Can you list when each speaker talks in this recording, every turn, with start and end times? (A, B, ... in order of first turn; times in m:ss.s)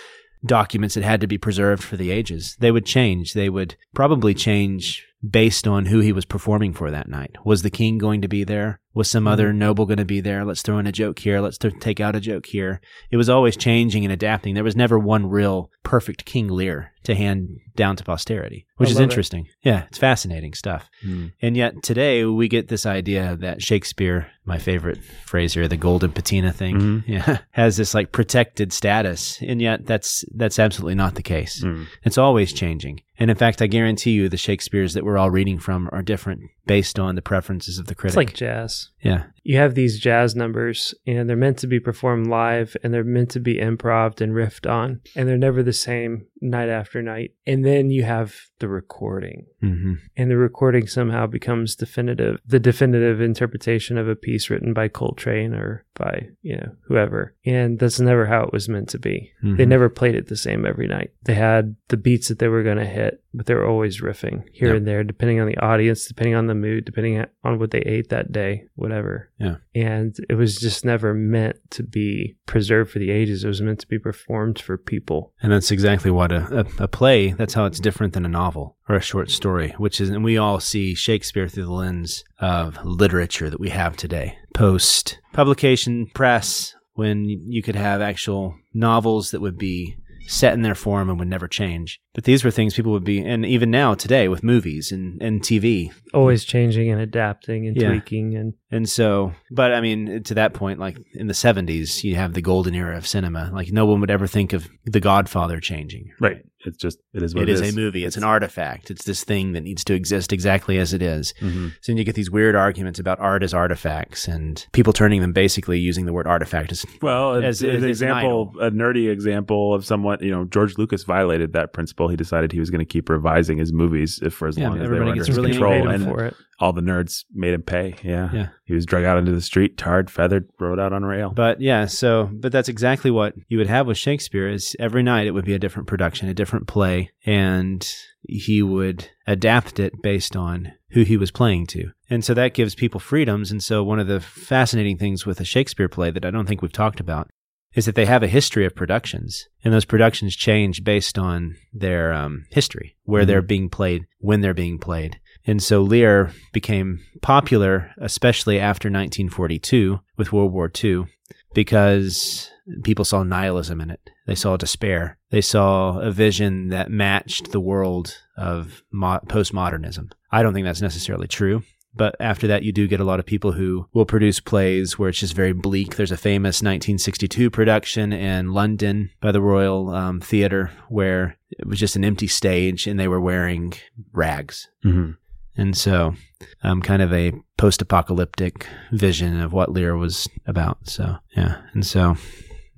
0:00.4-0:38.4 A
0:18.8-0:19.2 B
0:26.7-0:27.0 C
0:31.6-0:31.9 C
0:38.1-0:38.9 B
0:39.0-0:39.3 A
0:39.4-0:49.5 B
0:49.6-0:50.0 A
0:50.2-1:15.3 B
0:59.4-0:59.8 A
1:15.4-1:36.3 A
1:36.1-1:38.5 B
1:37.7-1:38.0 A
1:38.7-1:46.4 A
1:46.2-1:47.9 C
1:47.3-1:58.5 A
1:51.4-1:51.7 C
1:57.0-2:11.4 C
2:04.6-2:06.2 A
2:05.2-2:06.4 B
2:11.3-3:04.7 A
2:33.2-2:33.4 C
3:04.8-3:05.2 C
3:05.6-3:12.5 A